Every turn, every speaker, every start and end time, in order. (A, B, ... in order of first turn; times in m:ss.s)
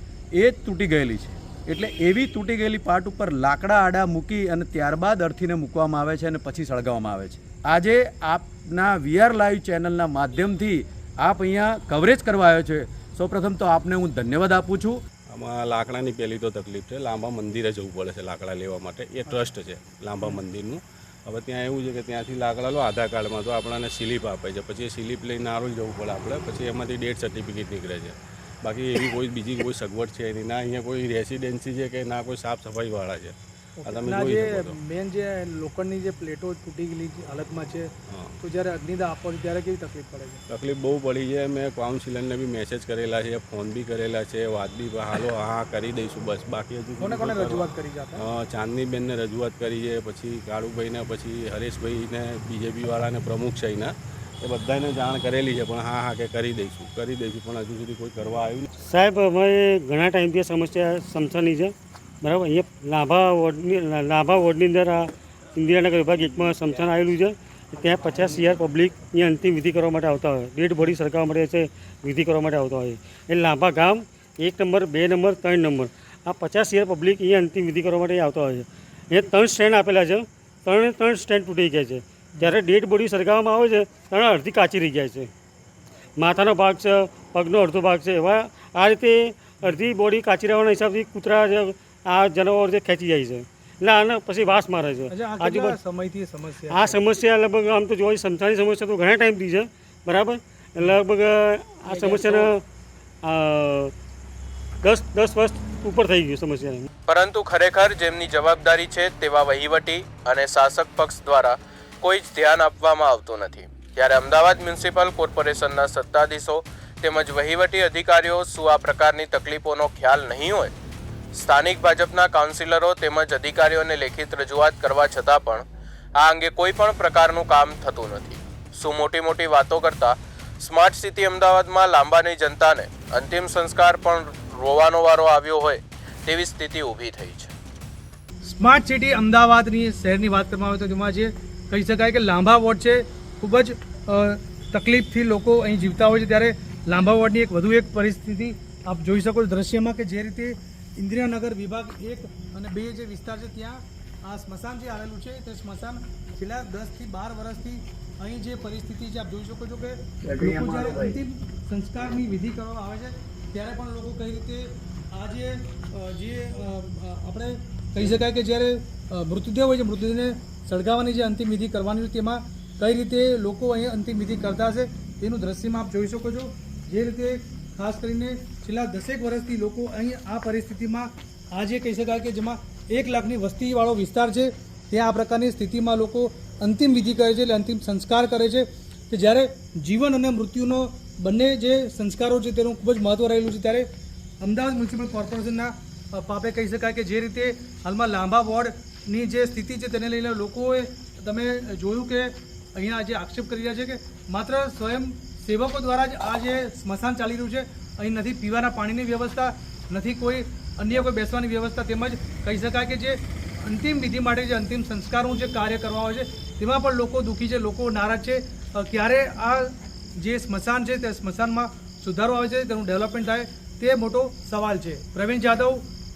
0:00.4-0:15.0 A
0:15.3-0:34.7 B
0:33.8-0:40.4 C
0:38.1-0:38.4 B
0:40.5-0:58.8 B
0:47.0-0:48.2 C
0:58.8-1:25.3 D
1:26.2-1:35.8 D
1:35.1-1:37.0 C
1:36.7-1:42.6 D
1:41.9-1:42.5 C
1:43.2-1:43.9 D
1:44.8-1:46.9 D
1:47.1-2:00.7 E
2:01.3-2:05.6 E
2:06.2-2:17.5 E
2:18.4-3:13.9 C
3:14.4-3:45.8 C